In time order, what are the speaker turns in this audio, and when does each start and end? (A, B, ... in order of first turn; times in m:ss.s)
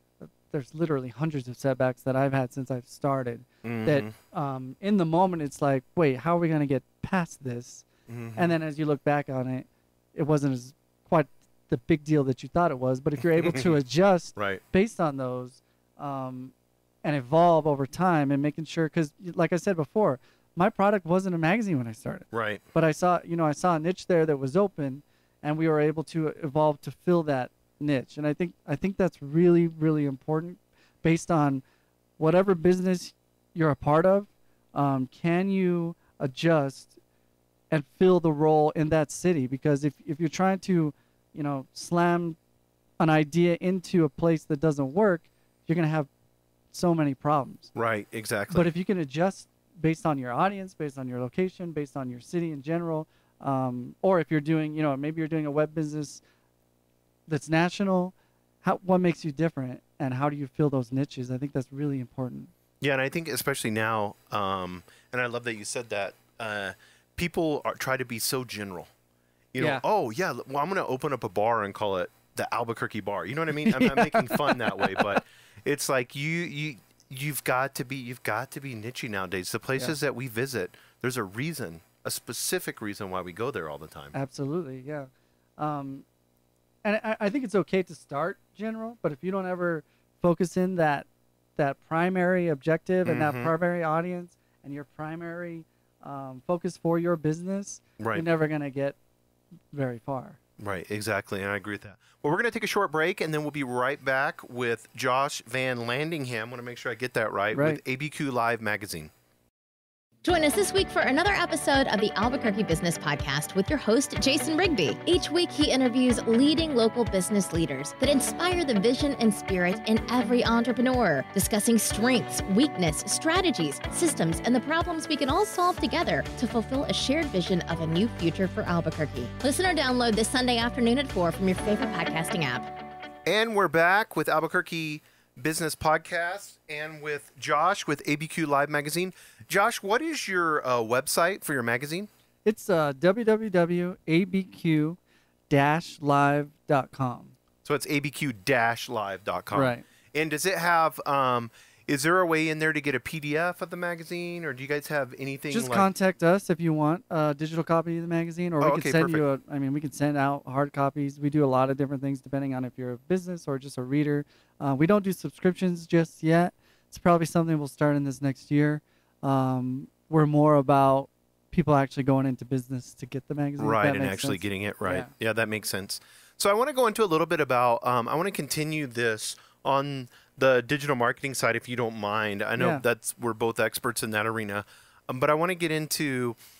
0:00.2-0:16.5 A
0:03.6-0:04.1 B
0:08.1-0:08.5 B
0:13.4-0:13.7 B
0:14.4-0:14.6 B
0:17.0-0:31.6 A
0:22.3-0:22.6 B
0:32.2-0:36.9 A
0:37.7-0:42.4 A
0:43.0-0:46.1 A
0:46.7-0:47.7 A
0:47.7-0:48.7 B
0:48.5-0:56.2 A
0:57.3-1:02.5 A
1:02.8-1:08.9 B
1:09.5-1:24.1 B
1:13.6-1:15.0 A
1:24.1-1:26.0 A
1:26.8-1:39.0 A
1:33.0-1:33.5 B
1:38.0-1:38.2 B
1:39.7-1:40.4 A
1:40.6-1:49.1 B
1:47.5-1:47.8 A
1:50.2-2:12.7 C
2:13.2-2:22.1 B
2:22.4-2:25.0 A
2:25.5-2:27.3 A
2:27.6-2:35.9 B
2:29.5-2:29.8 A
2:35.5-2:55.1 A
2:38.6-2:39.2 B
2:53.6-3:06.4 B
3:02.6-3:02.8 A